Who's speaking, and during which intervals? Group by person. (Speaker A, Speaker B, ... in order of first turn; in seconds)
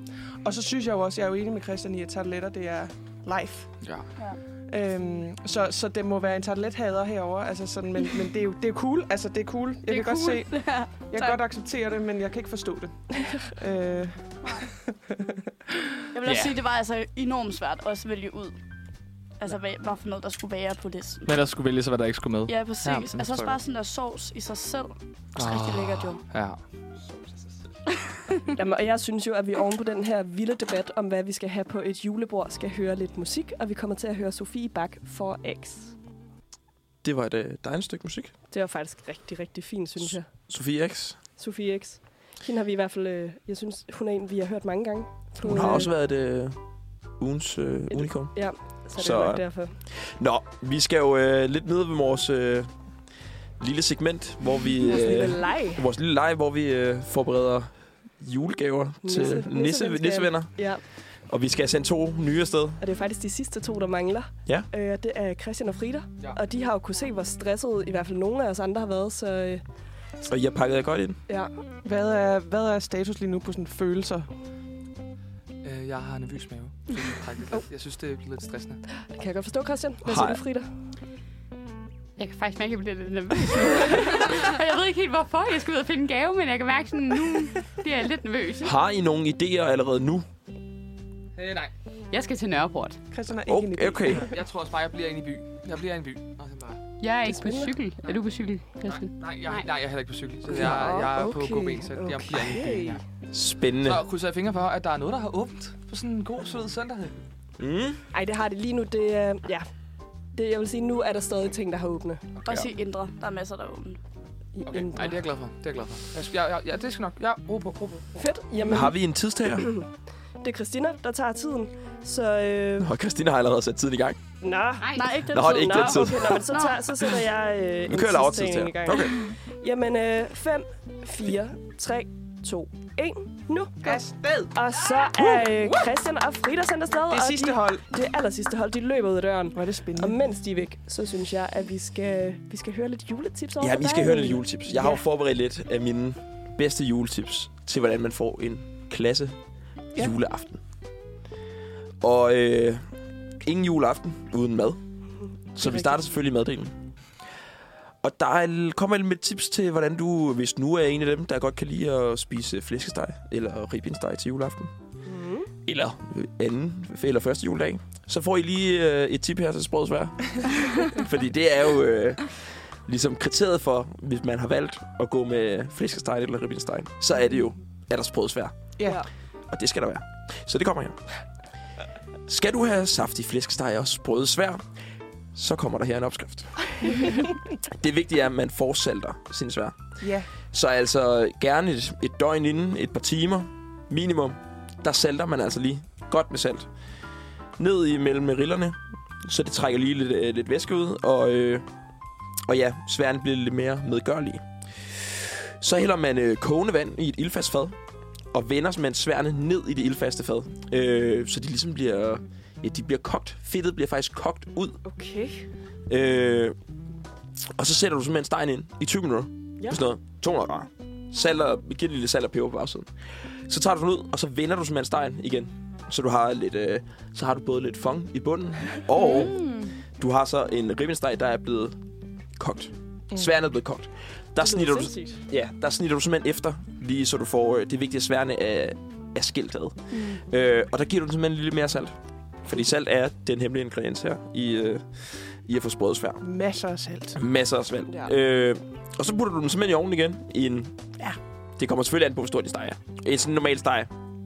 Speaker A: 0.4-3.8, 4.7-14.7, 71.8-74.3, 93.1-94.2, 133.8-134.5, 135.2-135.8, 137.1-137.8, 139.5-140.2, 178.8-179.0, 190.0-190.3, 246.2-247.2
Speaker B: 9.9-10.4, 82.2-88.7, 92.1-93.0, 97.0-99.7, 124.8-125.2
Speaker C: 10.3-11.4, 14.4-14.7, 16.1-18.6, 19.4-21.3, 22.5-26.2, 112.4-114.0, 125.0-127.0, 228.9-229.7
Speaker D: 16.2-16.5, 21.2-23.6, 25.4-26.6, 75.6-78.8, 91.3-91.7, 94.2-96.8, 98.8-103.0, 103.8-107.2, 114.7-118.0
Speaker E: 28.5-35.9, 38.5-40.3, 41.4-45.9, 47.9-49.7, 54.8-55.9, 59.0-60.8, 62.8-69.6, 79.0-80.7, 97.2-97.8, 100.5-103.0, 108.1-109.7, 110.3-112.3, 114.5-115.2, 118.1-119.0, 119.5-119.8, 120.4-122.9, 124.4-145.0, 155.6-156.1, 165.0-165.5, 214.8-215.5, 234.4-235.2
Speaker F: 37.0-38.3, 40.0-41.2, 45.4-52.7, 53.6-60.7, 61.2-62.8, 70.2-71.2, 80.0-80.4, 88.6-90.2, 93.4-94.3, 103.3-104.0, 107.6-108.0, 118.7-119.8, 122.8-124.2, 125.3-126.4, 127.9-129.3, 143.6-149.4, 149.9-150.6, 152.0-152.8, 153.4-154.8, 155.5-156.8, 158.0-164.7, 165.7-178.6, 179.5-181.0, 182.3-184.6, 185.3-196.7, 197.6-201.7, 202.4-207.8, 208.3-214.8, 215.9-216.6, 217.5-231.8, 232.3-246.2, 247.2-250.9, 251.6-253.9